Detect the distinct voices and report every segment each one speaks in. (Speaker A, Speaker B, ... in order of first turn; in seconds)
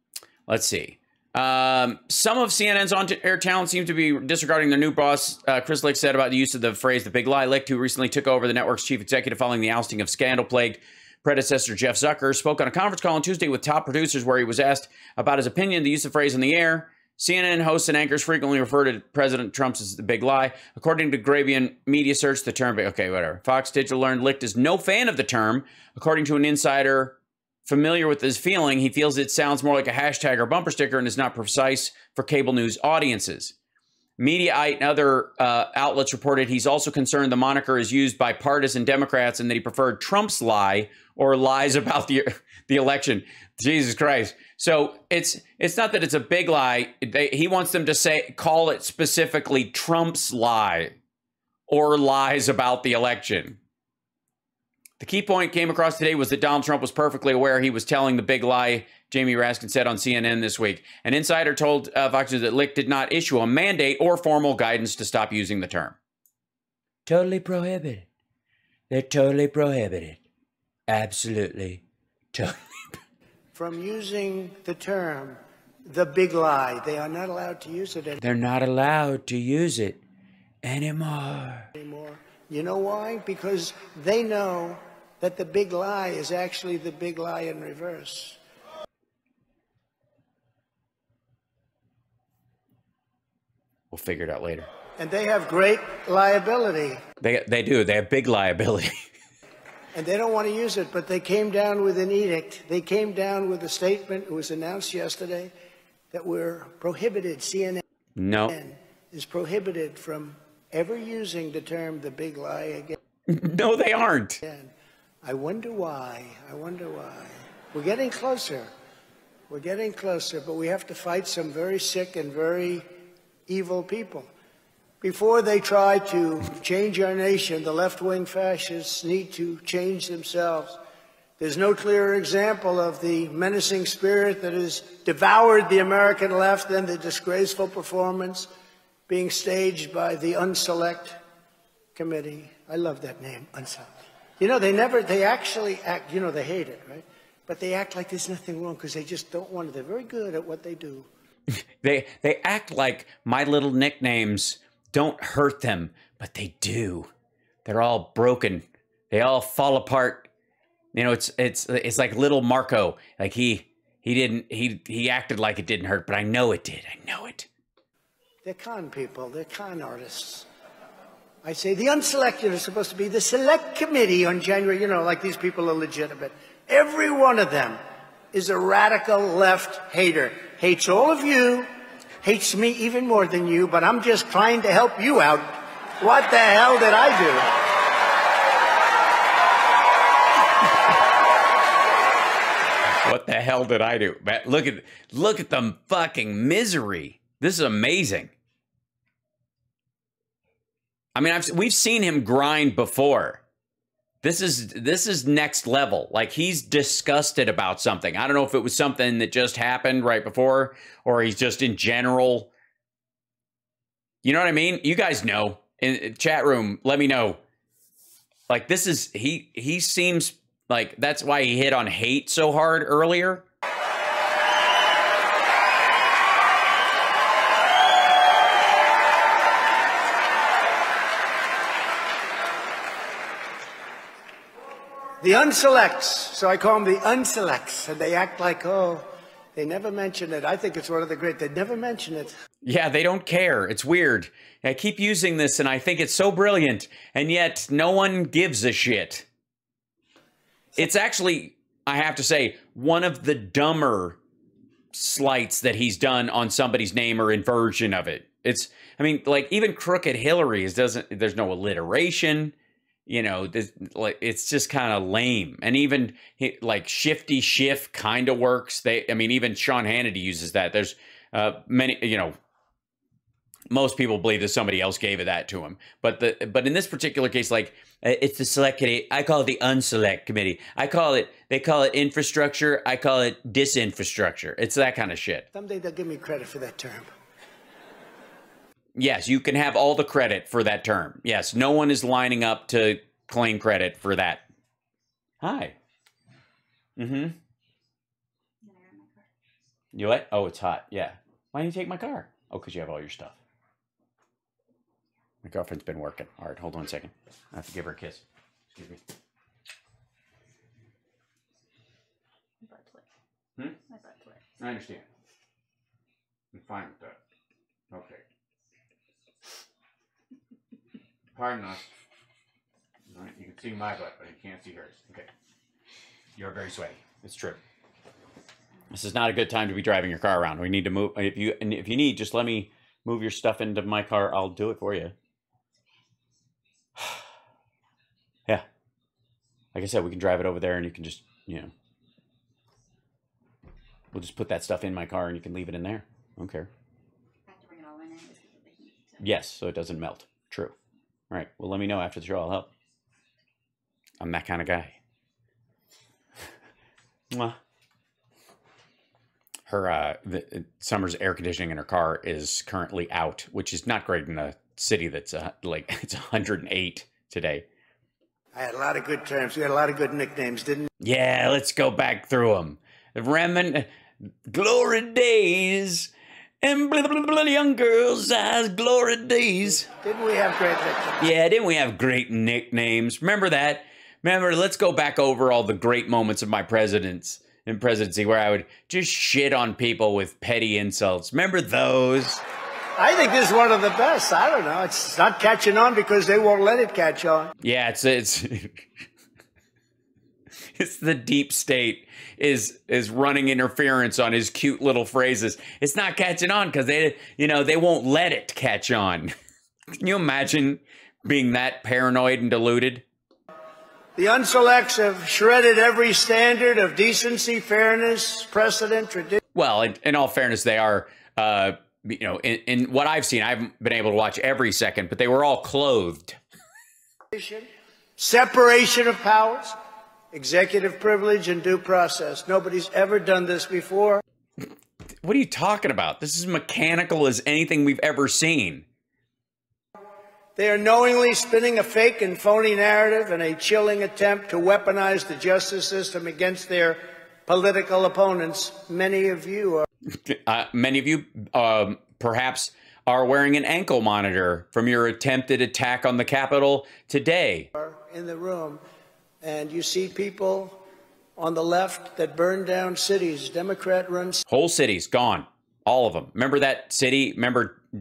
Speaker A: 0.5-33.5, 34.2-50.9, 51.7-53.6, 55.0-66.0, 67.0-68.1, 68.9-70.2, 70.9-72.9, 78.2-80.0, 80.6-81.7, 93.9-94.7, 97.2-98.9, 108.2-108.5, 113.3-114.4, 151.8-157.1, 157.6-160.3, 160.9-167.5, 193.0-198.3, 201.1-203.4, 204.2-212.5, 214.2-217.4, 218.5-223.4, 242.6-249.2, 250.8-254.2, 254.9-262.5, 263.1-272.3, 273.7-285.4, 288.9-294.4, 295.4-295.8, 297.0-297.4, 299.9-303.4, 305.4-309.0, 314.6-315.0, 316.5-317.2, 317.9-318.2, 321.3-321.9, 323.1-325.3, 326.4-327.6, 328.9-335.1, 339.7-341.7, 344.1-346.7, 349.2-350.7, 351.3-352.7, 354.2-355.0, 357.3-357.6, 359.7-367.6, 371.0-373.9, 374.4-379.9, 381.2-392.4, 397.6-398.9, 400.8-409.3, 410.0-413.0, 419.5-426.4, 435.2-438.9, 450.2-457.7, 464.5-467.8
Speaker B: 73.5-78.2, 81.8-88.4, 95.0-97.0, 99.9-105.5, 106.1-107.8, 108.5-113.0, 114.4-118.7, 119.5-122.8, 123.5-124.3, 125.0-130.8, 131.4-138.5, 139.1-141.2, 141.9-151.1, 168.4-170.5, 171.4-177.8, 178.3-181.7, 182.2-187.6, 235.2-242.3, 285.5-287.1, 368.5-370.9, 379.6-381.2, 393.0-397.5, 414.1-419.4, 427.3-429.8, 430.3-434.2, 440.6-449.9, 457.7-458.8, 459.4-460.8, 461.4-464.4
Speaker C: 298.6-299.3, 312.6-313.0, 313.8-314.6, 347.4-349.2